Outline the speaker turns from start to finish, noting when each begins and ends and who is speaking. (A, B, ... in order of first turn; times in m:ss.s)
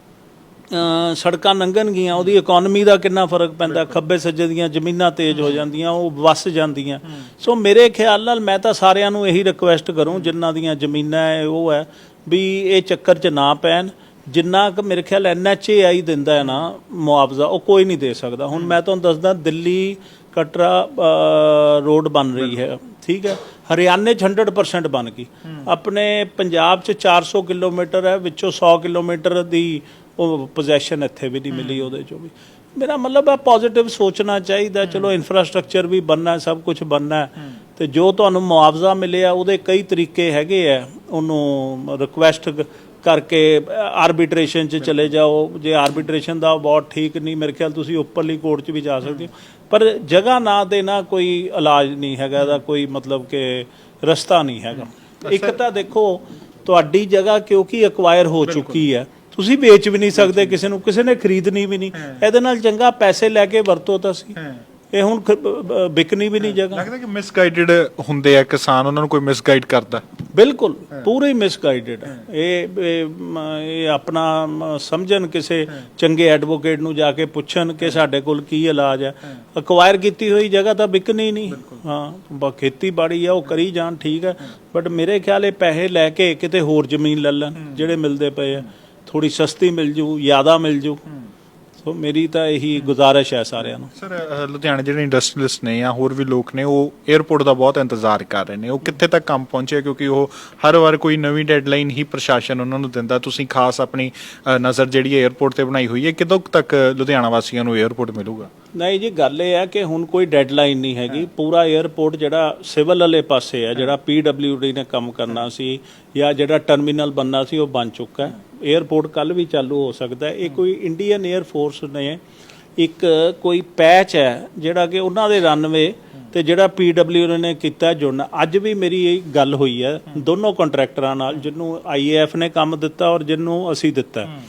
0:00.7-1:04.4 A
0:58.5-0:58.8 B
1:04.9-1:06.9 A
1:06.5-1:10.0 B
1:10.3-1:31.0 A
1:31.8-1:33.9 A
1:33.9-1:48.5 B
1:48.7-2:02.2 A
2:02.8-2:14.3 A